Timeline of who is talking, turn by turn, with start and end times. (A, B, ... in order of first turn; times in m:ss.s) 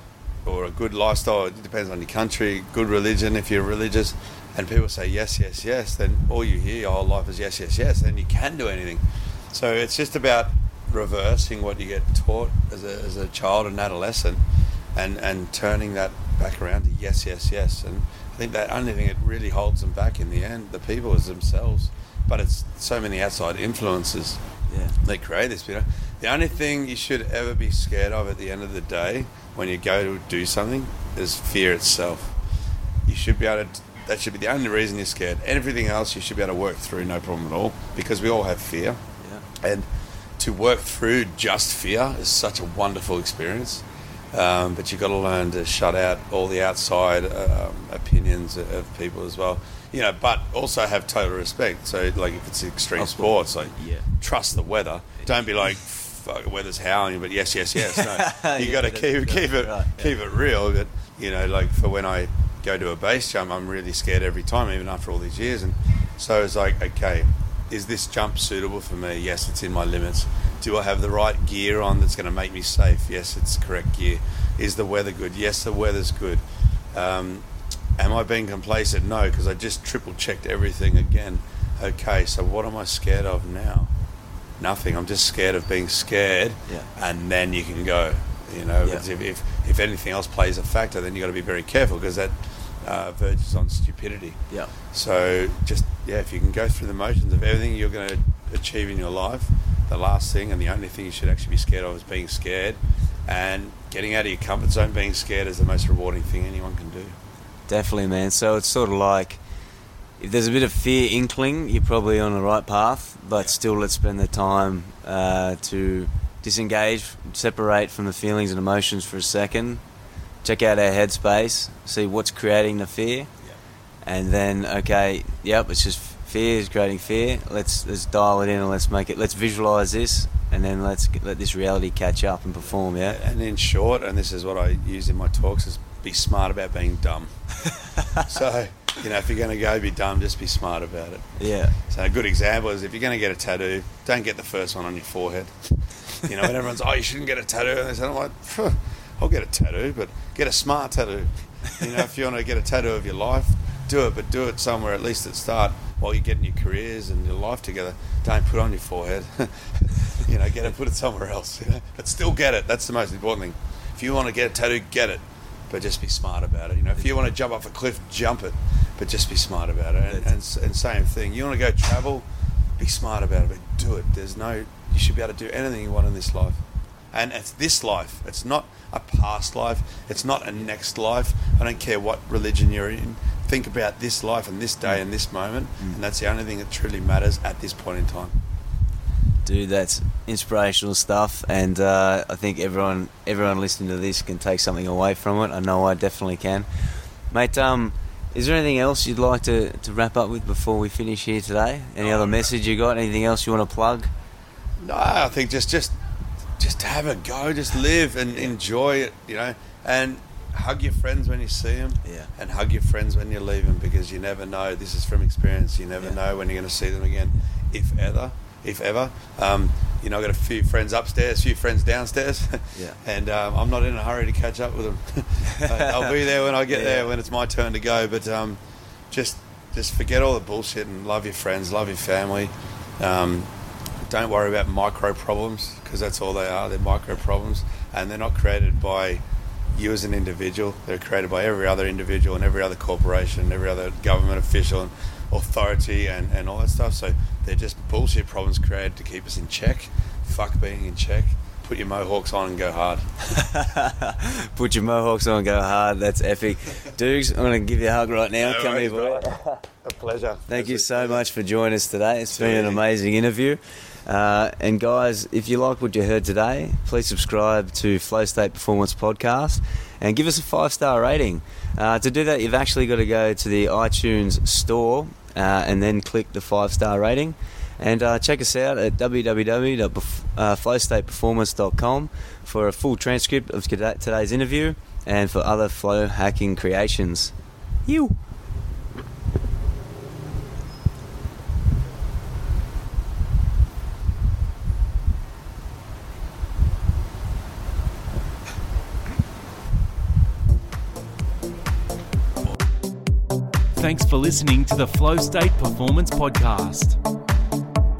0:00.4-0:14.4 A
0:14.9-0:24.4 A
0:24.7-0:25.0 B
0:25.0-0:32.3 A
0:33.0-0:39.0 A
0:39.6-0:39.9 A
0:40.4-1:17.4 A
0:53.0-0:54.0 B
0:57.8-1:00.1 B
1:18.0-1:23.9 A
1:24.6-1:34.4 A
1:34.9-1:47.1 A
1:47.7-1:49.4 B
1:50.2-1:59.8 B
2:00.4-2:03.3 B
2:04.0-2:13.2 B
2:13.0-2:17.4 A
2:17.9-2:18.2 B
2:18.1-2:52.2 A
2:21.4-2:21.7 B
2:52.8-2:56.6 A
2:57.1-3:08.4 A
3:09.4-3:16.6 B
3:17.3-3:24.1 B
3:22.0-3:22.5 A
3:24.8-3:25.9 A
3:26.6-3:48.6 A
3:45.5-3:46.0 B
3:46.7-3:47.1 B
3:49.1-3:53.5 A
3:54.0-3:59.2 A
3:59.7-4:13.4 A
4:13.3-4:19.6 B
4:18.4-4:19.3 A
4:19.8-4:21.2 A
4:20.5-4:47.3 B
4:22.3-4:22.8 A
4:47.8-4:48.2 B
5:03.8-5:07.0 C